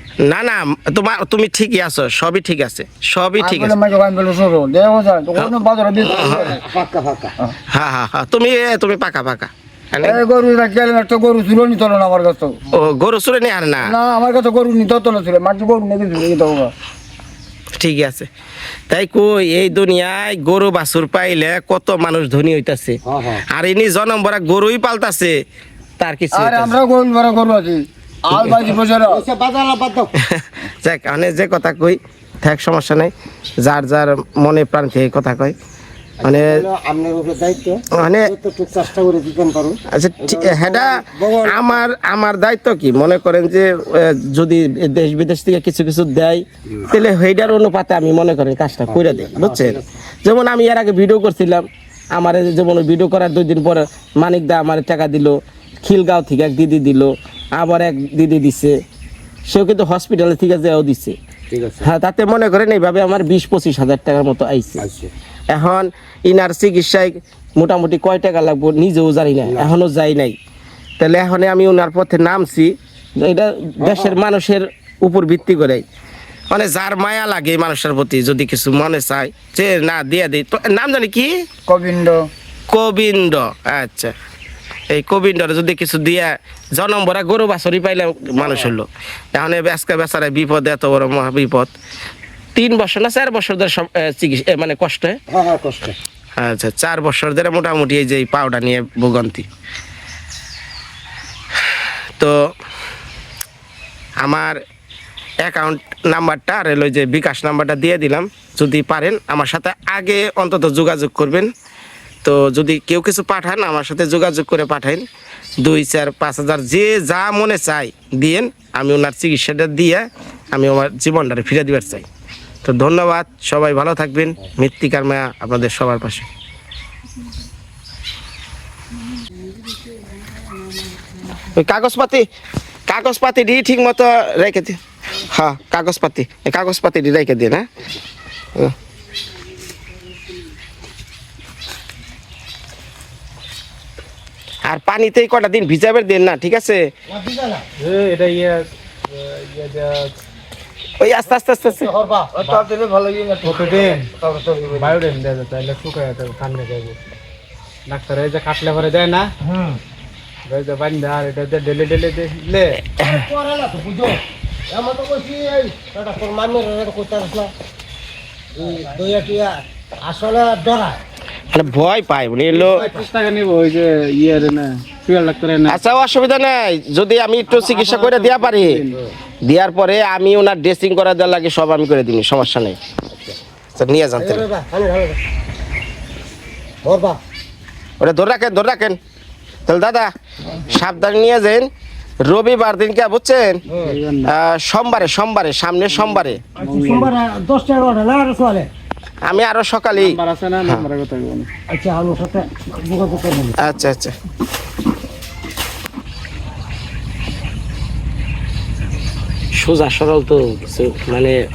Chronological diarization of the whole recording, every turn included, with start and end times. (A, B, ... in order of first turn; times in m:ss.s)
0:00.2-0:03.7 A
0:03.4-0:06.6 B
0:06.0-0:07.4 C
0:06.1-0:06.6 A
0:07.7-0:10.2 A
0:10.0-0:12.6 B
0:12.7-0:13.9 A
0:13.8-0:16.7 B
0:17.8-0:18.3 A
0:18.9-0:23.0 A
0:23.1-0:23.4 C
0:23.5-0:25.3 A
0:26.0-0:26.8 A
0:26.3-0:29.2 B
0:28.4-0:28.7 A
0:29.1-0:30.1 C
0:30.2-0:35.6 A
0:36.2-0:41.9 C
0:36.2-0:36.6 A
0:38.0-0:38.3 A
0:39.9-0:58.8 A
0:48.9-0:49.9 C
0:59.5-1:01.2 A
1:01.5-1:01.9 C
1:01.8-1:04.8 A
1:04.8-1:05.1 C
1:05.5-1:10.4 A
1:09.4-1:09.7 C
1:11.0-1:15.8 A
1:13.8-1:14.2 C
1:16.5-1:21.3 A
1:21.7-1:22.2 B
1:22.7-1:24.1 A
1:24.9-1:31.7 A
1:28.4-1:28.8 C
1:32.6-1:35.2 A
1:35.3-1:36.0 C
1:36.4-1:39.5 A
1:44.2-1:44.6 A
1:45.4-1:51.5 A
1:52.2-1:55.0 A
1:55.6-2:02.1 A
2:02.6-2:06.3 A
2:11.6-2:12.2 A
2:12.9-2:14.8 A
2:15.3-2:17.6 A
2:24.7-2:26.8 A
2:27.1-2:27.6 C
2:27.8-2:30.1 D
2:31.0-2:31.9 A
2:31.7-2:32.3 C
2:32.4-2:34.9 B
2:33.4-2:34.1 D
2:34.8-2:37.0 D
2:37.9-2:39.3 D
2:40.5-2:42.9 D
2:43.0-2:43.2 A
2:43.0-2:47.5 C
2:48.6-2:51.0 C
2:51.5-2:52.9 A
2:52.5-2:55.8 D
2:52.7-2:53.1 C
2:55.7-2:58.8 A
2:57.5-2:59.0 D
2:59.5-3:02.8 A
3:03.1-3:03.4 C
3:03.8-3:04.5 A
3:04.2-3:05.2 C
3:06.8-3:07.2 C
3:08.0-3:09.0 A
3:09.7-3:10.1 A
3:10.7-3:11.7 A
3:12.3-3:13.6 A
3:13.7-3:14.0 C
3:13.8-3:14.3 D
3:14.2-3:16.4 A
3:16.6-3:17.1 D
3:16.6-3:18.7 C
3:19.2-3:20.9 A
3:19.9-3:21.5 D
3:21.7-3:23.6 C
3:23.6-3:24.1 A
3:29.6-3:31.4 A